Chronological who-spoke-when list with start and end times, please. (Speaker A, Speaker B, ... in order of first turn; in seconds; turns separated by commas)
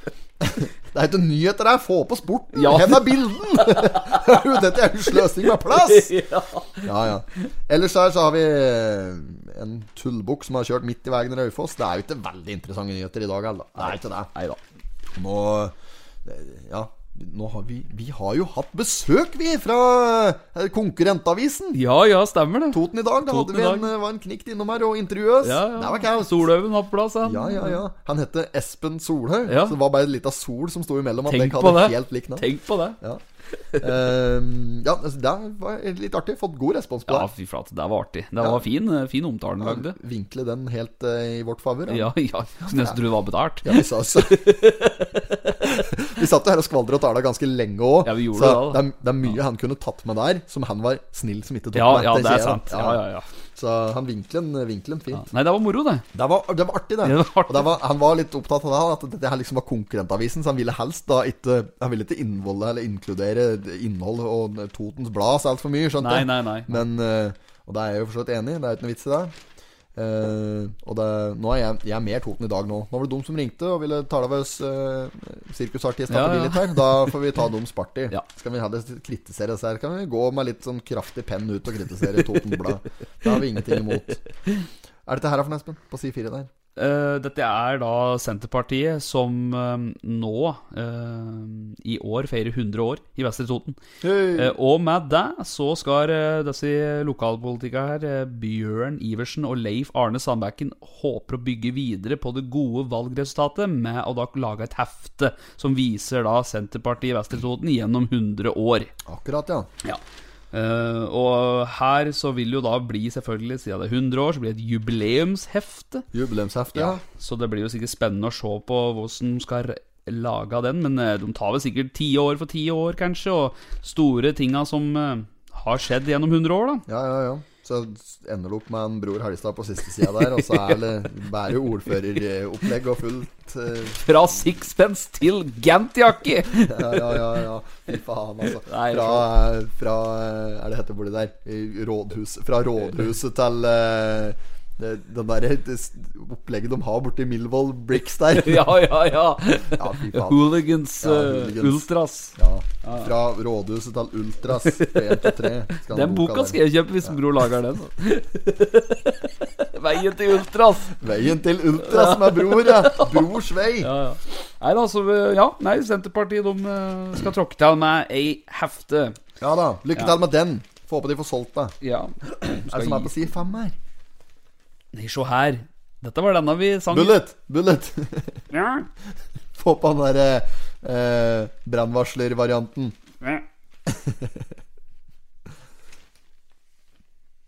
Speaker A: 0.4-6.1, Speaker B: 2.5-4.5, Speaker B: 5.4-6.9, Speaker A: 6.8-14.3, Speaker B: 13.8-14.6, Speaker A: 15.2-21.8, Speaker B: 21.8-23.9, Speaker A: 22.7-26.5, Speaker B: 25.4-27.8, Speaker A: 27.2-33.2, Speaker B: 29.5-29.8, Speaker B: 31.3-33.0, Speaker A: 33.8-37.3, Speaker B: 37.1-40.0, Speaker A: 39.6-43.0, Speaker B: 41.9-45.3, Speaker A: 43.6-44.7, Speaker A: 45.5-53.0, Speaker B: 48.0-48.9, Speaker B: 51.7-53.2, Speaker A: 53.5-55.3, Speaker B: 55.1-56.0, Speaker A: 56.1-69.3, Speaker B: 57.0-57.7, Speaker B: 66.0-66.8, Speaker A: 70.0-84.2, Speaker B: 76.1-77.1, Speaker A: 85.1-86.5, Speaker B: 86.8-93.8, Speaker A: 94.0-94.5, Speaker B: 94.3-108.9, Speaker A: 109.1-109.7, Speaker B: 110.5-116.0, Speaker A: 116.1-117.0, Speaker B: 116.7-126.8, Speaker A: 126.9-134.0, Speaker B: 130.4-130.7, Speaker B: 134.0-137.3, Speaker A: 136.6-148.9, Speaker B: 138.6-139.3, Speaker B: 148.3-153.1, Speaker A: 149.7-157.2, Speaker B: 154.6-160.9, Speaker A: 160.9-163.9, Speaker B: 161.8-169.2, Speaker A: 169.4-171.8, Speaker B: 171.8-173.1, Speaker A: 172.4-173.8, Speaker B: 174.9-177.2, Speaker A: 176.9-178.4, Speaker A: 179.6-182.9, Speaker A: 183.9-184.4